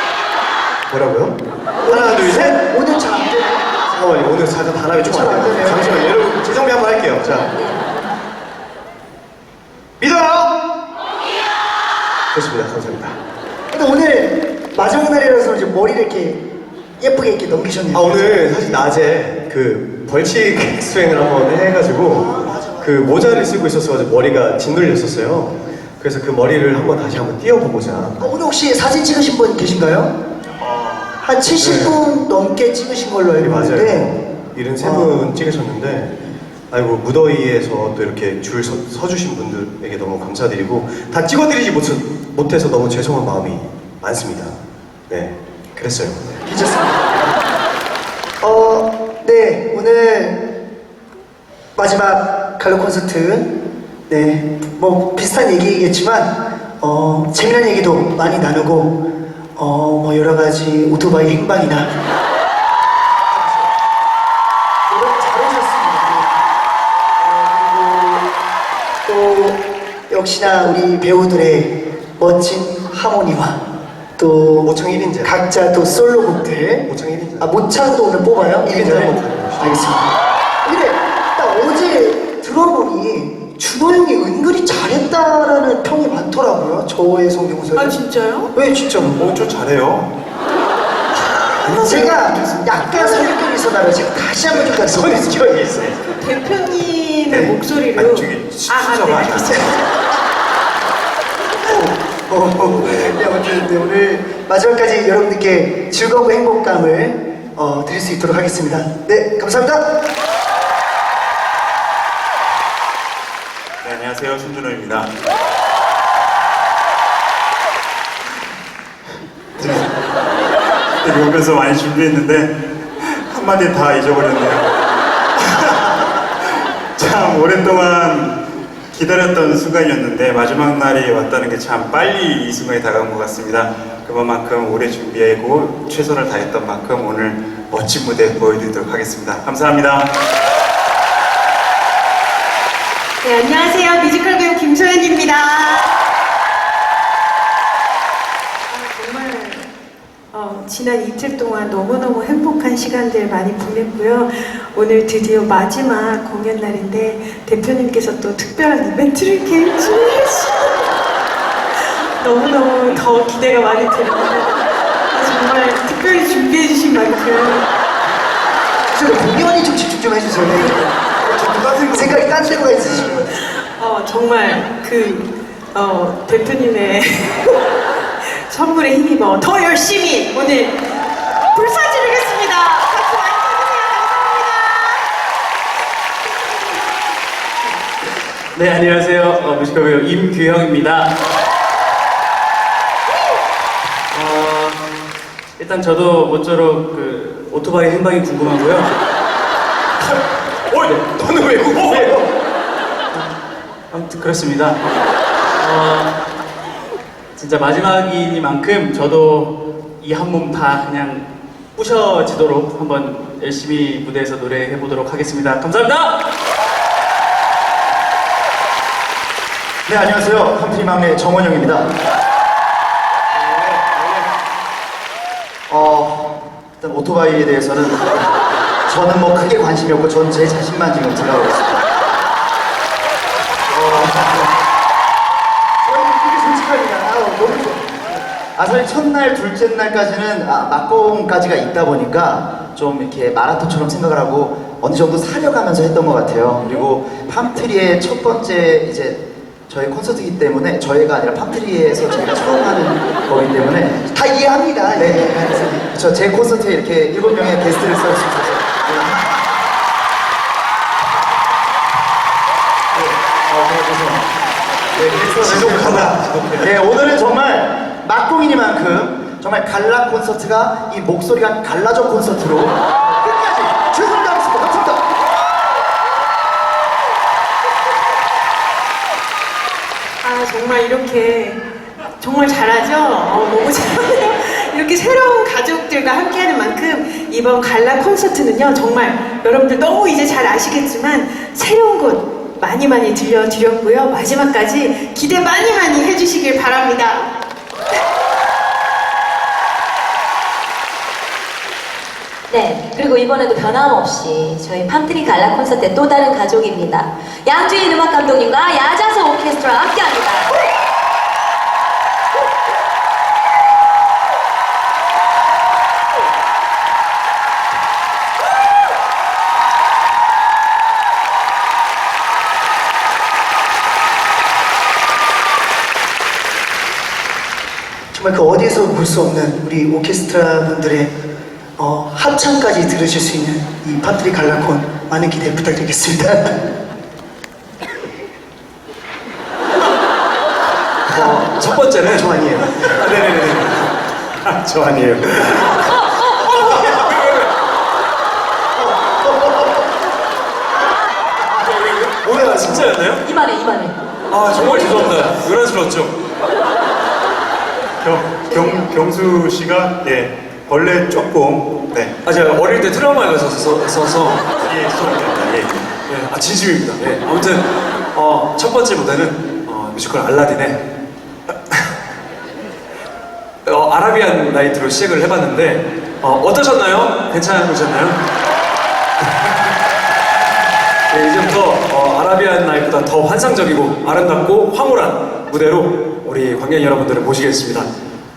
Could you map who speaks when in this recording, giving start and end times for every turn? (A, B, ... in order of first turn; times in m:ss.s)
0:00.9-0:02.6 A
0:01.8-0:03.7 B
0:03.8-0:07.5 A
0:05.0-0:06.1 B
0:07.2-0:08.1 C
0:10.0-0:10.5 A
0:12.3-0:13.2 A
0:13.7-0:16.5 B
0:17.0-0:18.4 B
0:17.9-0:28.3 A
0:22.1-0:22.9 B
0:28.2-0:30.2 B
0:31.2-0:34.1 B
0:31.6-0:32.0 A
0:33.4-0:46.4 A
0:34.8-0:35.3 B
0:46.4-0:47.1 B
0:48.4-0:50.4 B
0:51.8-0:53.5 B
0:54.1-1:01.9 B
1:04.9-1:06.3 B
1:07.2-1:08.3 B
1:09.0-1:13.6 B
1:14.2-1:16.9 B
1:14.6-1:15.4 A
1:16.9-1:17.6 A
1:17.4-1:20.1 B
1:18.6-1:19.9 A
1:20.6-1:28.0 B
1:27.8-1:28.5 D
1:28.5-1:29.2 B
1:29.0-1:30.1 E
1:31.6-1:32.3 E
1:31.8-1:35.6 B
1:34.7-1:36.0 A
1:36.2-1:39.8 D
1:37.3-1:39.8 E
1:41.6-1:50.0 B
1:42.6-1:43.1 A
1:53.8-1:55.1 E
1:59.6-1:59.9 E
2:01.0-2:04.7 E
2:05.4-2:08.4 E
2:08.9-2:20.1 E
2:23.2-2:25.9 D
2:28.7-2:29.7 D
2:30.3-2:40.9 D
2:41.8-2:44.6 D
2:45.1-2:47.7 D
2:48.9-2:50.9 B
2:51.3-2:52.0 E
2:51.9-2:53.3 B
2:53.0-3:00.9 D
3:01.5-3:05.1 D
3:06.4-3:06.9 D
3:08.5-3:11.1 F
3:14.1-3:15.0 F
3:15.6-3:19.0 F
3:20.8-3:22.1 F
3:20.8-3:22.3 A
3:23.9-3:24.9 F
3:25.6-3:26.2 F
3:27.4-3:36.3 F
3:39.9-3:41.9 G
3:43.7-3:44.0 A
3:45.7-3:51.9 G
3:53.7-3:54.5 G
3:55.8-3:58.3 B
3:58.6-4:14.0 G
4:14.1-4:15.9 B
4:14.9-4:19.4 G
4:23.0-4:24.2 G
4:24.9-4:35.1 G
4:25.1-4:26.7 H
4:40.2-4:41.6 D
4:42.2-4:57.3 D
5:02.5-5:10.5 C
5:28.1-5:31.1 B
5:31.8-5:36.6 B
5:41.1-5:47.5 H
5:41.2-5:43.4 A
5:51.5-5:53.2 H
5:53.1-5:54.0 C
5:54.3-5:56.2 H
5:54.6-5:55.1 C
5:58.0-6:02.1 E
5:58.5-5:58.9 C
6:02.2-6:10.9 H
6:13.6-6:18.2 H
6:19.2-6:19.5 H
6:21.1-6:27.9 H